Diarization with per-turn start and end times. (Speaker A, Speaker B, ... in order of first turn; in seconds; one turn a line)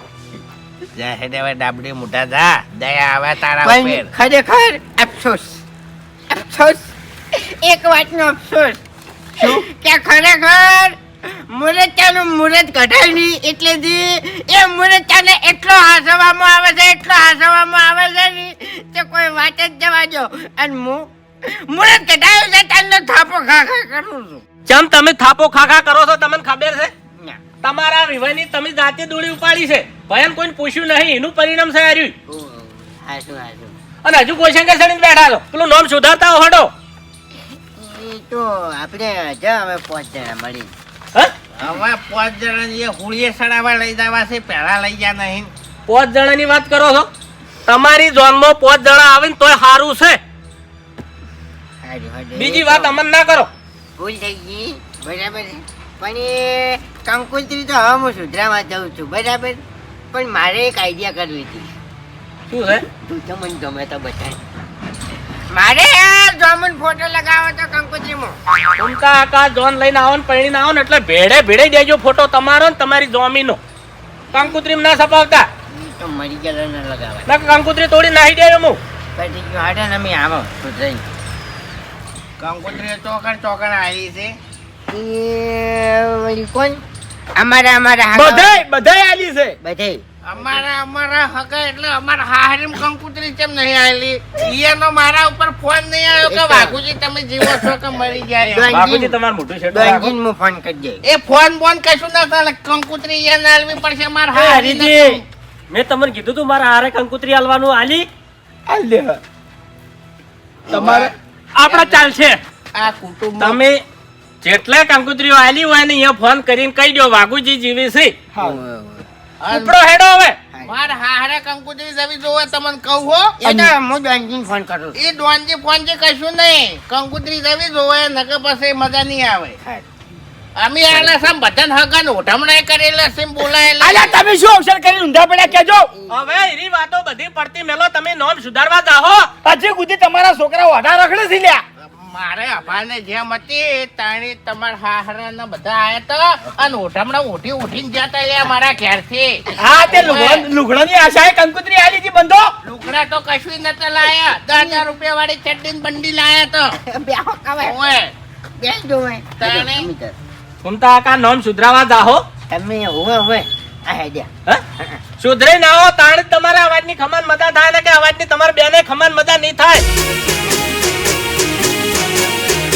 Speaker A: 0.9-4.1
Speaker B: 3.6-5.6
Speaker B: 6.3-8.8
Speaker B: 9.4-24.4
Speaker C: 24.7-26.9
Speaker B: 27.1-27.4
Speaker C: 27.6-32.1
Speaker B: 32.3-33.8
Speaker C: 34.0-36.7
Speaker B: 37.8-40.7
Speaker A: 41.6-45.5
Speaker C: 45.9-47.1
Speaker C: 47.6-50.2
Speaker B: 51.8-53.0
Speaker C: 52.3-53.5
Speaker B: 54.0-59.6
Speaker B: 60.1-61.7
Speaker C: 62.5-62.9
Speaker B: 62.9-64.4
Speaker B: 65.5-68.4
Speaker C: 68.8-73.6
Speaker C: 74.3-75.5
Speaker B: 75.7-77.3
Speaker C: 77.3-78.8
Speaker B: 79.2-81.0
Speaker A: 82.4-84.4
Speaker B: 84.9-86.8
Speaker B: 87.3-88.6
Speaker D: 88.1-89.6
Speaker B: 89.6-90.0
Speaker A: 90.2-98.7
Speaker B: 96.3-96.8
Speaker B: 98.5-99.2
Speaker C: 98.7-100.1
Speaker B: 99.7-101.0
Speaker A: 101.0-105.2
Speaker C: 104.3-105.2
Speaker C: 105.7-108.1
Speaker D: 108.7-109.2
Speaker D: 110.7-111.1
Speaker A: 110.7-111.1
Speaker C: 111.6-112.4
Speaker A: 111.7-112.1
Speaker A: 112.8-113.6
Speaker C: 113.4-113.8
Speaker C: 114.4-118.1
Speaker D: 118.3-118.6
Speaker B: 118.4-119.1
Speaker A: 119.4-119.8
Speaker C: 119.5-120.4
Speaker B: 120.5-120.9
Speaker A: 120.6-123.7
Speaker B: 123.4-125.0
Speaker A: 125.0-129.6
Speaker A: 130.6-134.2
Speaker B: 130.9-131.2
Speaker D: 133.8-135.9
Speaker C: 136.1-139.3
Speaker D: 139.4-141.6
Speaker A: 141.8-150.4
Speaker D: 149.6-152.5
Speaker A: 152.6-156.8
Speaker B: 154.5-154.8
Speaker B: 156.8-157.8
Speaker A: 157.6-158.1
Speaker B: 158.6-160.2
Speaker A: 159.4-159.9
Speaker C: 160.6-162.2
Speaker B: 162.5-165.0
Speaker C: 165.2-169.8